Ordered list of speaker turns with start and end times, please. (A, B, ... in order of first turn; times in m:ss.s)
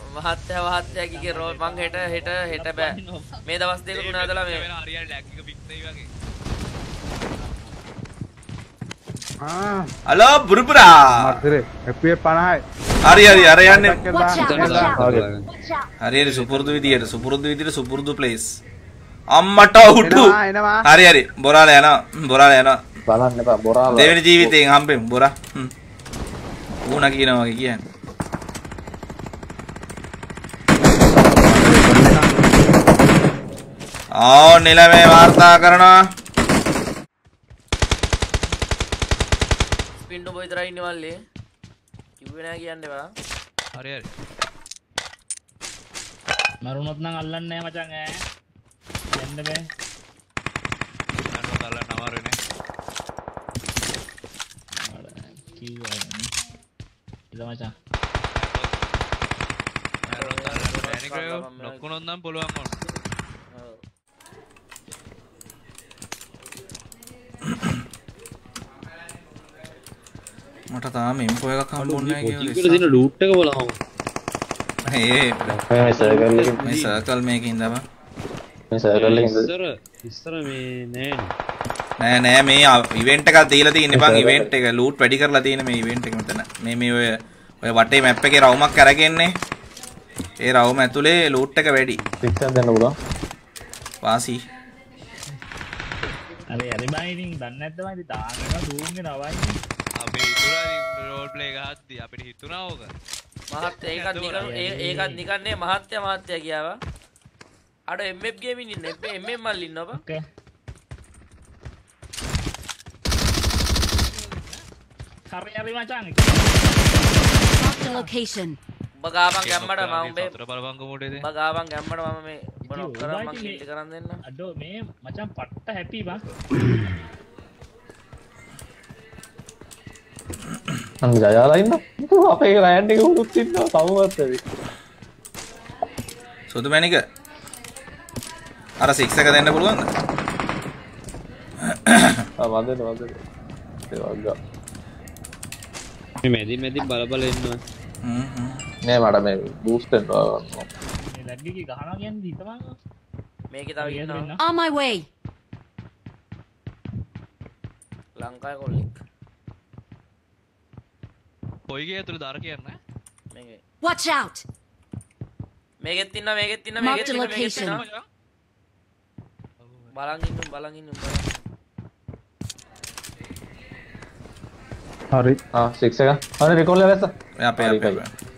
0:00.1-0:04.6 A
0:00.8-0:03.4 B
0:03.9-0:06.1 C
0:07.4-0:07.7 B
0:09.4-0:09.9 D
0:10.1-0:11.4 E
0:11.1-0:12.6 D
0:13.0-0:14.0 E
0:13.2-0:13.5 F
0:13.2-0:15.0 D
0:14.1-0:15.9 F
0:14.4-0:15.4 G
0:16.0-0:18.5 E
0:16.2-0:16.5 C
0:16.7-0:17.0 G
0:19.3-0:22.8 E
0:20.0-0:20.8 D
0:23.1-0:24.5 H
0:23.9-0:25.7 E
0:26.8-0:27.8 E
0:34.2-0:35.9 E
0:40.0-0:41.1 A
0:42.2-0:43.1 A
0:43.7-0:44.1 C
0:46.6-0:48.0 B
0:49.1-0:49.6 B
0:51.3-0:52.4 C
0:54.8-0:56.3 B
0:57.3-0:57.7 B
0:58.3-0:58.8 C
1:00.1-1:02.7 C
1:00.1-1:01.8 A
1:03.5-1:03.8 A
1:07.5-1:07.8 E
1:10.7-1:12.8 E
1:11.8-1:13.8 G
1:14.8-1:15.6 E
1:15.5-1:17.0 G
1:15.6-1:16.7 H
1:16.6-1:17.8 E
1:18.7-1:19.5 H
1:18.9-1:21.3 G
1:22.0-1:27.0 E
1:23.9-1:24.5 H
1:27.6-1:29.3 E
1:30.4-1:32.0 E
1:32.2-1:32.9 H
1:34.0-1:34.4 E
1:36.5-1:39.5 B
1:40.0-1:42.9 C
1:43.5-1:46.8 A
1:43.9-1:44.7 C
1:44.4-1:45.2 B
1:47.9-1:50.0 A
1:49.9-1:50.2 B
1:54.2-1:54.5 C
1:55.3-1:58.1 B
1:57.6-1:58.6 F
1:59.0-2:00.4 A
1:59.4-2:01.3 C
2:01.1-2:04.2 A
2:02.6-2:03.6 B
2:04.2-2:06.2 B
2:11.0-2:14.4 H
2:16.5-2:17.0 E
2:18.8-2:19.9 E
2:21.6-2:22.3 E
2:22.4-2:23.2 H
2:23.9-2:24.3 H
2:26.2-2:27.6 G
2:28.0-2:28.6 E
2:28.8-2:30.7 H
2:31.0-2:32.7 B
2:33.5-2:34.3 A
2:33.8-2:34.4 B
2:34.4-2:35.0 F
2:38.2-2:39.0 A
2:41.7-2:42.8 C
2:43.3-2:43.6 A
2:43.8-2:44.4 F
2:45.8-2:47.8 A
2:46.8-2:47.8 F
2:46.9-2:48.0 C
2:49.6-2:49.9 C
2:49.9-2:51.2 A
2:55.5-2:58.0 H
2:57.4-2:58.1 E